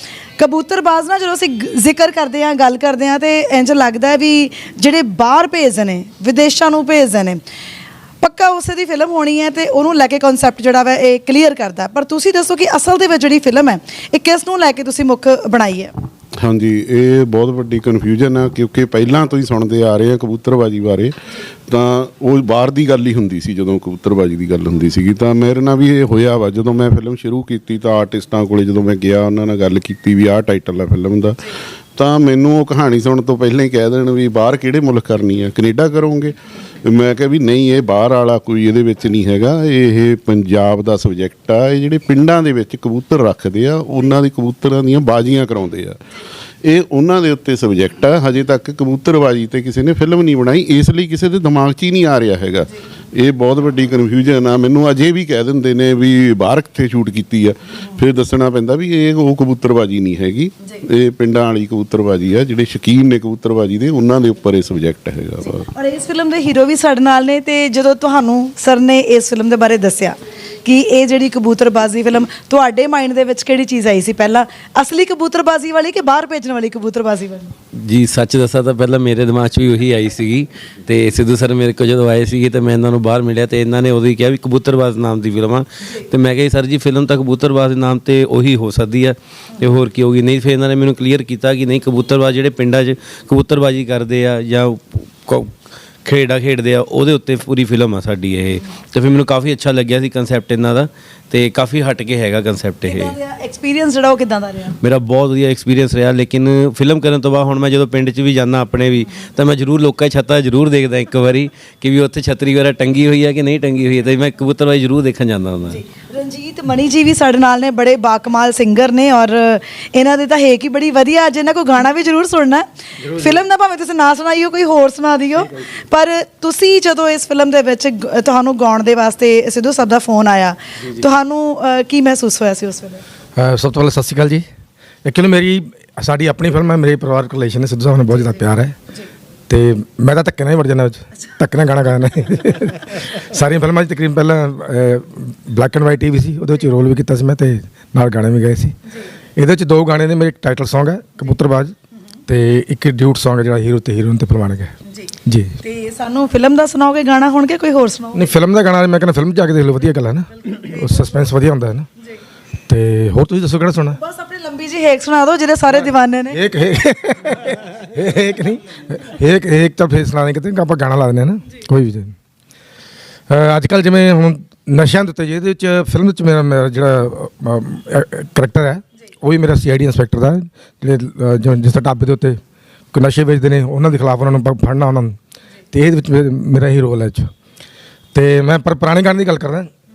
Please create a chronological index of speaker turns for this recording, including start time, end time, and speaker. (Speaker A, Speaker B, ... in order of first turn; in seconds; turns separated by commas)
Speaker A: 0.4-7.4, Speaker A: 8.2-15.9, Speaker B: 16.4-46.0, Speaker B: 46.6-65.7, Speaker A: 65.7-77.5, Speaker C: 77.9-95.5, Speaker C: 96.0-103.1, Speaker A: 102.8-104.8, Speaker C: 104.8-115.8, Speaker A: 115.7-133.0, Speaker D: 133.4-134.4, Speaker D: 135.1-138.8, Speaker D: 139.5-148.8, Speaker D: 149.4-151.7, Speaker D: 152.3-154.7, Speaker D: 155.2-155.6, Speaker A: 155.6-158.2, Speaker D: 158.1-161.9, Speaker D: 162.7-164.0, Speaker A: 164.0-166.4, Speaker D: 166.3-172.1, Speaker D: 173.3-182.4, Speaker D: 182.9-185.2, Speaker D: 185.7-187.3, Speaker D: 188.1-189.7